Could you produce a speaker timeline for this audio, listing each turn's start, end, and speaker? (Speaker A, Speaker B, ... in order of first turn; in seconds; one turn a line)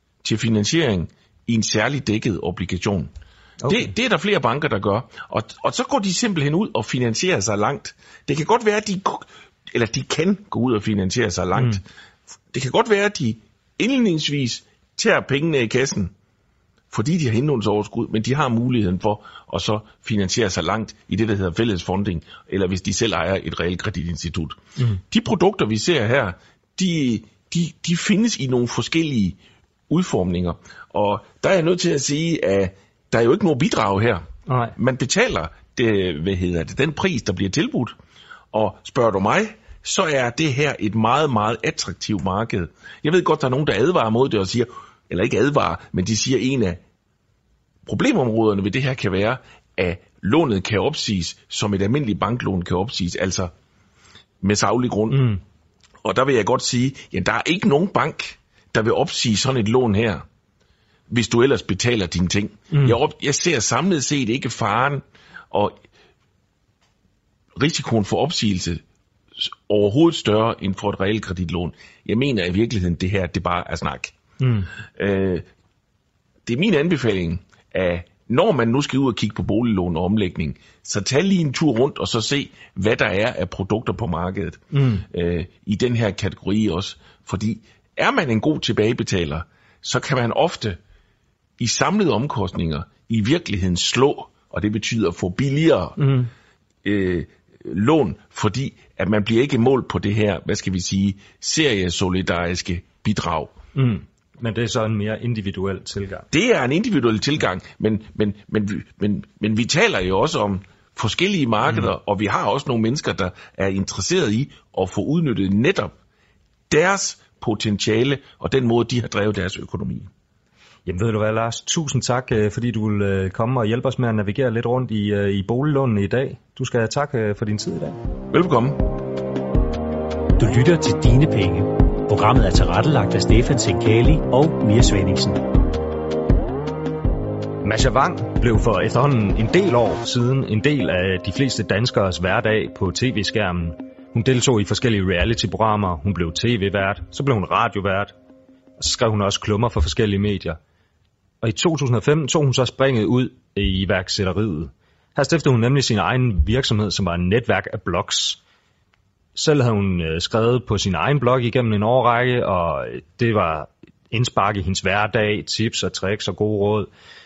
Speaker A: 0.2-3.1
Speaker B: 3.6-3.9
Speaker A: 3.7-11.8
Speaker A: 12.5-16.1
Speaker A: 16.9-29.4
Speaker A: 29.9-38.0
Speaker B: 34.5-34.7
Speaker A: 38.5-46.8
Speaker A: 47.9-53.5
Speaker A: 54.4-55.3
Speaker B: 55.1-55.4
Speaker A: 56.0-60.2
Speaker A: 61.1-65.8
Speaker B: 62.7-63.0
Speaker A: 67.5-68.8
Speaker A: 69.4-74.2
Speaker B: 74.4-74.7
Speaker A: 75.0-75.5
Speaker A: 76.5-90.8
Speaker B: 84.7-85.0
Speaker A: 91.6-96.0
Speaker B: 96.0-96.3
Speaker A: 96.8-103.5
Speaker B: 103.7-106.2
Speaker A: 106.3-115.9
Speaker B: 111.6-111.9
Speaker A: 116.7-120.1
Speaker B: 120.8-128.0
Speaker A: 128.3-128.8
Speaker C: 130.4-135.5
Speaker B: 137.6-148.1
Speaker B: 148.8-150.6
Speaker B: 151.4-158.4
Speaker B: 159.3-166.9